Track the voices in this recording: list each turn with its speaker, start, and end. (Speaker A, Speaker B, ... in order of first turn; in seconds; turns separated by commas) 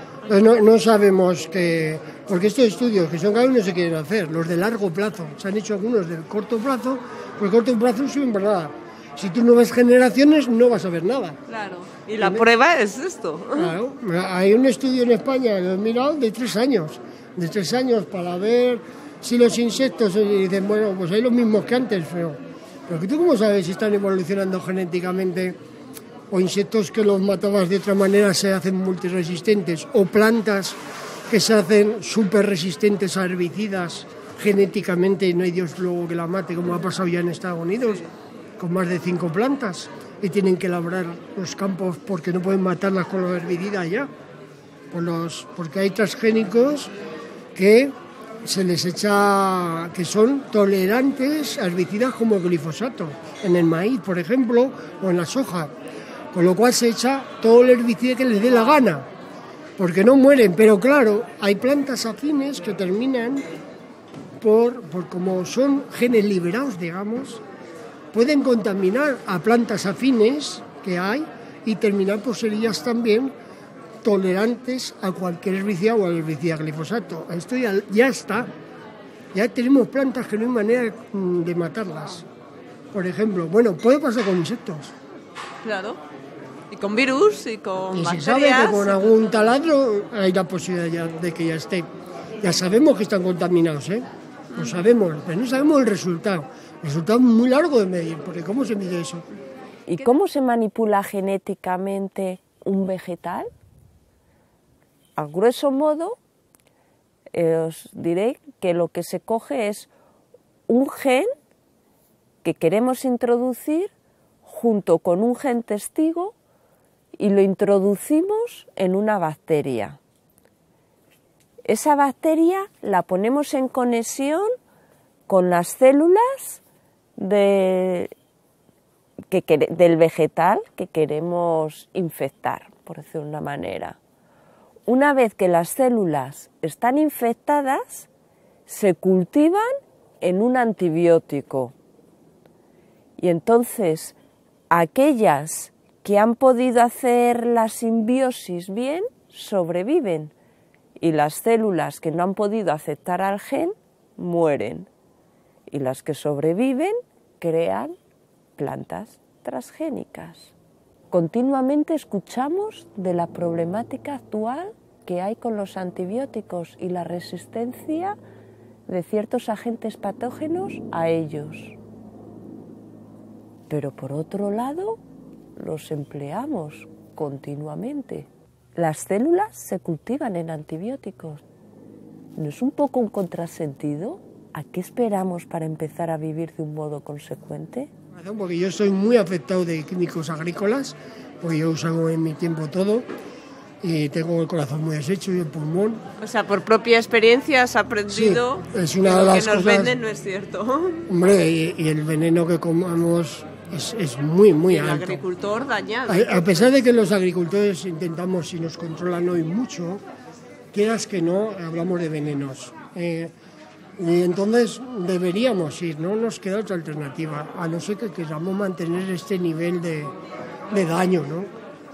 Speaker A: 0.3-11.4, Speaker B: 11.5-13.7, Speaker A: 12.2-12.5, Speaker A: 13.5-25.6, Speaker A: 26.3-30.8, Speaker A: 31.3-38.0, Speaker A: 38.6-44.1, Speaker A: 44.9-46.9, Speaker A: 47.5-55.7, Speaker A: 56.3-59.1, Speaker A: 59.8-63.5, Speaker A: 64.4-67.4, Speaker A: 68.1-73.3, Speaker A: 74.0-78.5, Speaker A: 79.3-82.2, Speaker A: 82.9-84.9, Speaker B: 85.6-86.0, Speaker B: 86.7-89.2, Speaker A: 87.9-91.9, Speaker A: 92.4-99.2, Speaker B: 94.5-94.8, Speaker C: 99.9-103.5, Speaker C: 105.2-106.2, Speaker C: 107.3-109.9, Speaker C: 110.7-111.3, Speaker C: 112.4-113.9, Speaker C: 114.4-116.3, Speaker C: 117.2-120.0, Speaker C: 121.6-124.5, Speaker C: 125.3-126.6, Speaker C: 127.2-128.1, Speaker C: 129.3-134.0, Speaker C: 134.9-138.1, Speaker C: 138.7-141.7, Speaker C: 143.2-144.2, Speaker C: 144.7-150.3, Speaker C: 151.0-154.9, Speaker C: 155.7-157.9, Speaker C: 158.6-160.5, Speaker C: 161.1-168.2, Speaker C: 168.9-171.8, Speaker C: 173.7-175.0, Speaker C: 175.6-181.4, Speaker C: 182.4-187.9, Speaker A: 188.1-193.1, Speaker A: 193.8-196.0, Speaker B: 196.2-201.1, Speaker A: 198.1-199.9, Speaker A: 201.1-205.2, Speaker B: 204.7-206.7, Speaker A: 206.1-210.0, Speaker A: 210.7-213.3, Speaker A: 214.0-220.1, Speaker A: 220.7-221.5